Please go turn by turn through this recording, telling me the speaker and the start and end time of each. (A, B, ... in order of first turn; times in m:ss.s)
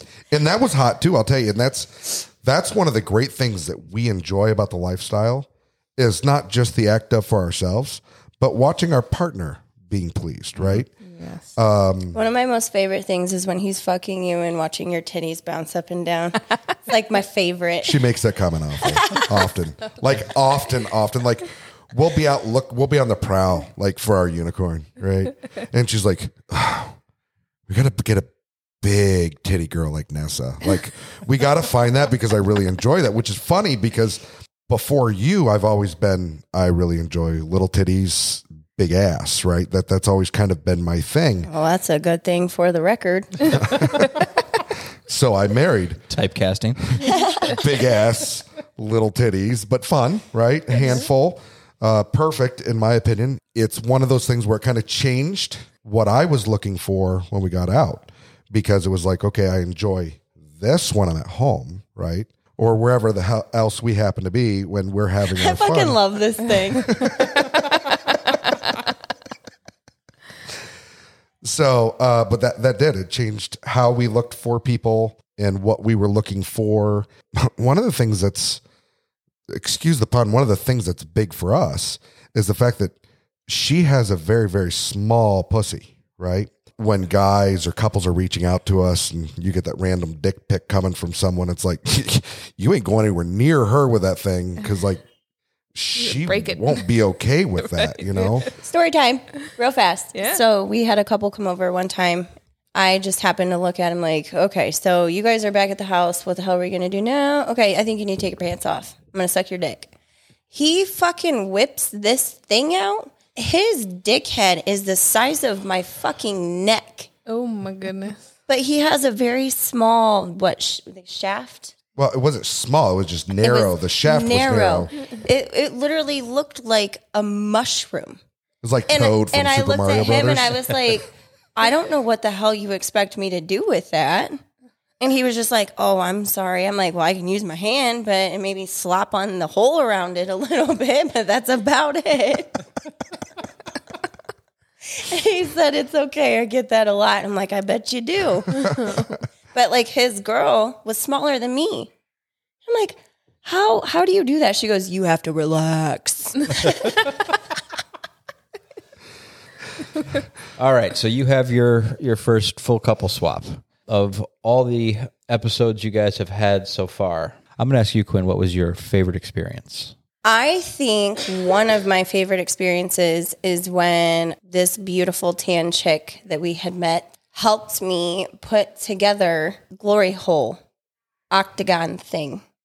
0:00.3-0:10.9 A
0:10.6-0:10.8 B
0:11.1-0:11.5 C
0:11.6-0:12.2 A
0:12.1-0:18.0 D
0:17.8-0:27.0 A
0:27.7-0:28.3 A
0:28.8-0:41.5 A
0:41.5-0:43.9 D
0:43.6-0:44.2 A
0:45.1-0:46.0 A
0:46.1-0:47.0 B
0:47.0-1:06.0 A
0:47.0-0:47.6 D
1:05.3-1:07.1 D
1:06.9-1:07.5 A
1:11.4-1:18.6 A
1:19.5-1:23.0 A
1:23.5-1:35.0 A
1:35.7-1:38.5 A
1:36.0-1:36.9 C
1:38.6-1:49.9 D
1:40.1-1:40.4 C
1:50.5-1:57.1 D
1:57.3-1:58.2 C
1:58.5-2:01.7 D
2:02.0-2:04.9 A
2:03.4-2:08.2 D
2:08.6-2:10.7 A
2:08.9-2:14.4 D
2:15.0-2:22.6 D
2:24.9-2:31.9 D
2:32.6-2:37.1 D
2:40.6-2:49.9 B
2:50.2-3:00.6 D
3:01.3-3:02.4 D